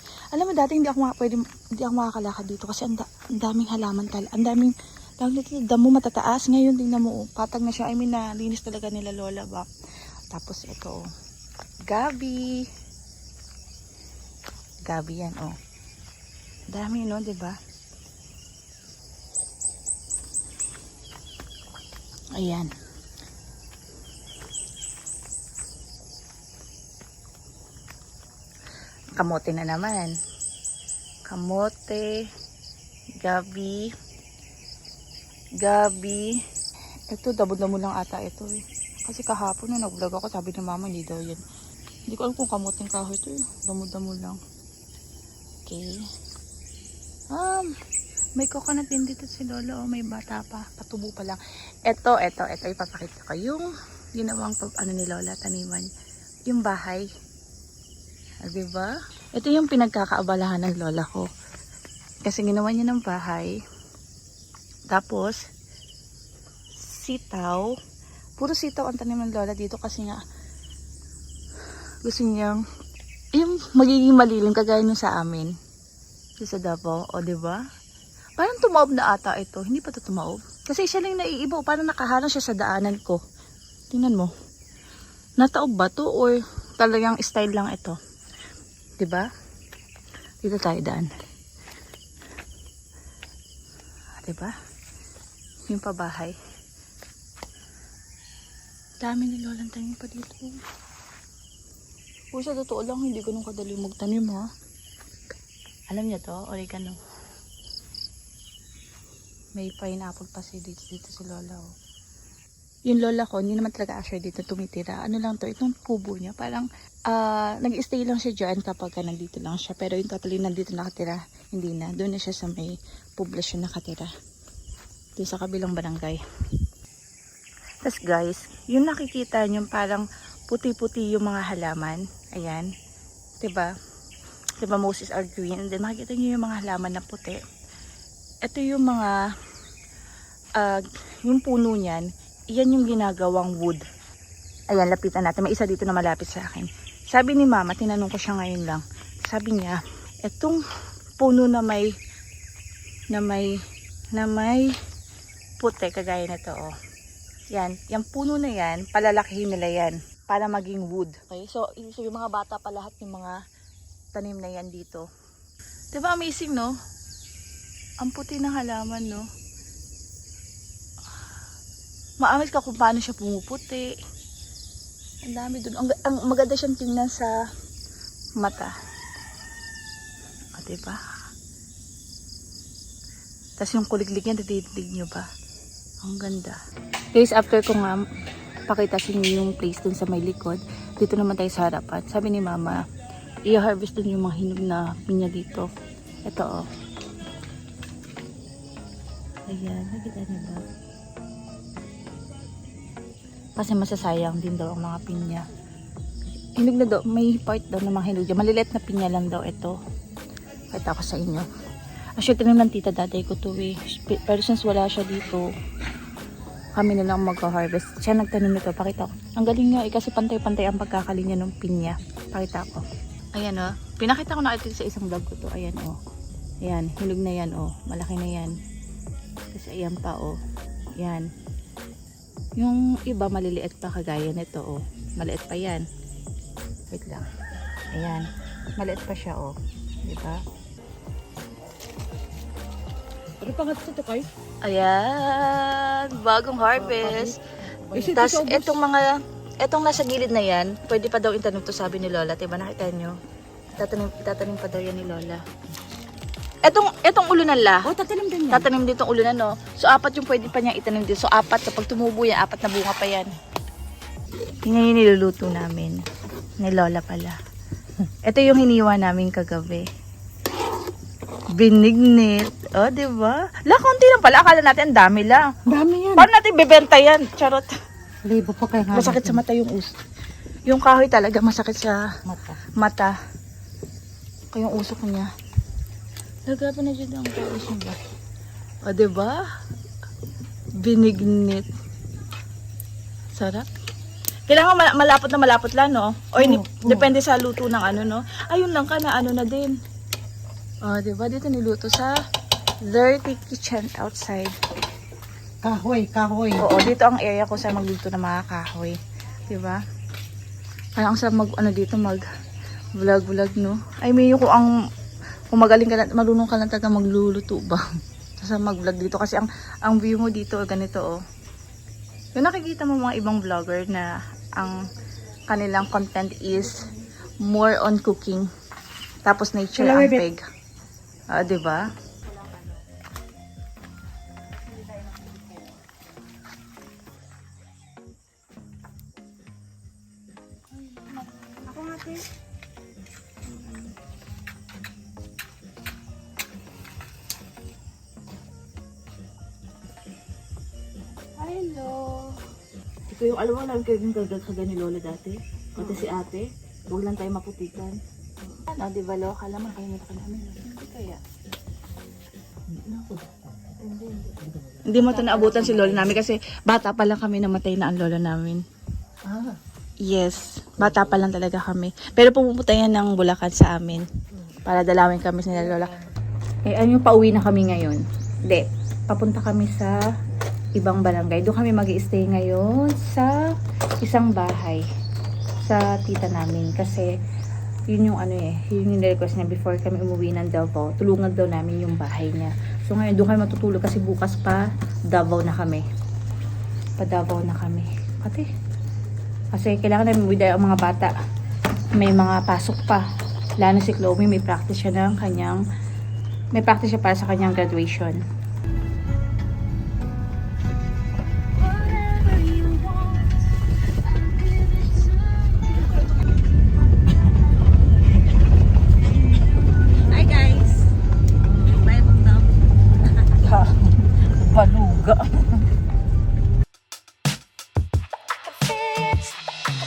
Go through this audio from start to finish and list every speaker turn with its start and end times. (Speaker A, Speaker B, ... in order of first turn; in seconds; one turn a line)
Speaker A: 0.3-9.7
Speaker A: 10.3-11.0
Speaker A: 11.9-12.6
Speaker A: 14.9-15.6
Speaker A: 16.7-17.6
Speaker A: 22.4-22.7
Speaker A: 29.2-30.1
Speaker A: 31.3-32.1
Speaker A: 33.2-33.9
Speaker A: 35.6-36.4
Speaker A: 37.1-41.4
Speaker A: 42.1-44.4
Speaker A: 45.7-46.0
Speaker A: 47.3-47.7
Speaker A: 48.4-55.9
Speaker A: 56.5-57.1
Speaker A: 58.4-61.3
Speaker A: 62.2-63.6
Speaker A: 64.9-65.4
Speaker A: 66.8-67.7
Speaker A: 68.4-70.2
Speaker A: 72.0-72.6
Speaker A: 73.3-75.5
Speaker A: 76.4-77.6
Speaker A: 78.4-83.2
Speaker A: 83.9-84.3
Speaker A: 85.4-88.0
Speaker A: 89.0-89.3
Speaker A: 90.4-91.1
Speaker A: 94.2-94.5
Speaker A: 95.7-96.3
Speaker A: 99.0-100.6
Speaker A: 102.3-104.5
Speaker A: 105.9-107.0
Speaker A: 109.6-111.7
Speaker A: 112.9-124.1
Speaker A: 125.2-126.2
Speaker A: 127.8-132.7
Speaker A: 133.4-133.7
Speaker A: 134.6-137.4
Speaker A: 138.5-139.2
Speaker A: 140.6-143.8
Speaker A: 144.7-150.6
Speaker A: 151.2-151.9
Speaker A: 153.1-153.5
Speaker A: 154.2-154.7
Speaker A: 155.6-156.7
Speaker A: 157.5-163.4
Speaker A: 164.1-165.1
Speaker A: 165.9-166.7
Speaker A: 168.0-169.3
Speaker A: 172.2-173.9
Speaker A: 175.2-177.3
Speaker A: 178.4-178.7
Speaker A: 180.5-181.0
Speaker A: 183.6-185.3
Speaker A: 186.0-186.6
Speaker A: 187.1-188.1
Speaker A: 188.7-192.8
Speaker A: 193.5-195.7
Speaker A: 196.3-196.7
Speaker A: 199.5-200.6
Speaker A: 203.6-205.4
Speaker A: 206.6-209.8
Speaker A: 210.7-211.5
Speaker A: 212.2-215.5
Speaker A: 216.8-222.8
Speaker A: 223.3-226.0
Speaker A: 226.6-228.6
Speaker A: 229.5-230.4
Speaker A: 231.0-231.3
Speaker A: 232.6-235.8
Speaker A: 236.9-237.3
Speaker A: 237.9-238.3
Speaker A: 238.8-240.4
Speaker B: 243.4-244.3
Speaker A: 244.6-247.4
Speaker B: 246.8-248.8
Speaker A: 247.9-253.2
Speaker A: 253.8-255.4
Speaker A: 256.6-257.9
Speaker B: 257.8-258.7
Speaker A: 258.5-263.3
Speaker A: 264.6-266.0
Speaker A: 266.6-267.4
Speaker A: 268.2-269.9
Speaker A: 271.5-275.5
Speaker B: 275.7-276.3
Speaker A: 276.1-277.7
Speaker B: 278.2-279.4
Speaker A: 278.9-279.9
Speaker A: 280.7-282.0
Speaker B: 282.3-282.6
Speaker A: 282.8-283.2
Speaker A: 284.5-285.3
Speaker A: 286.5-288.0
Speaker A: 288.9-289.4
Speaker A: 290.8-291.7
Speaker A: 293.3-293.7
Speaker A: 294.5-299.8
Speaker B: 296.4-297.1
Speaker A: 300.8-302.1
Speaker A: 302.9-304.5
Speaker B: 305.6-306.8
Speaker A: 306.6-309.0
Speaker A: 309.5-309.8
Speaker A: 311.0-312.2
Speaker A: 313.0-314.7
Speaker A: 315.5-317.8
Speaker A: 318.4-321.2
Speaker A: 322.4-324.8
Speaker A: 325.5-326.9
Speaker A: 327.4-328.5
Speaker A: 329.3-330.4
Speaker B: 329.8-330.2
Speaker A: 331.3-332.8
Speaker A: 334.9-335.6
Speaker A: 340.8-342.3
Speaker A: 343.5-343.9
Speaker A: 351.4-352.4
Speaker A: 353.1-358.0
Speaker A: 358.5-361.2
Speaker B: 362.7-366.2
Speaker A: 364.9-368.6
Speaker B: 369.3-369.6
Speaker A: 370.0-374.1
Speaker A: 374.6-375.9
Speaker A: 376.7-380.0
Speaker A: 380.8-383.3
Speaker A: 384.0-384.8
Speaker A: 385.6-387.1
Speaker A: 387.9-395.9
Speaker A: 397.0-398.5
Speaker A: 399.5-401.1
Speaker A: 402.0-403.1
Speaker A: 403.6-405.6
Speaker A: 406.5-408.2
Speaker A: 411.6-413.4
Speaker A: 414.0-416.2
Speaker A: 419.9-420.9
Speaker A: 421.7-422.5
Speaker A: 423.3-425.5
Speaker A: 428.6-429.3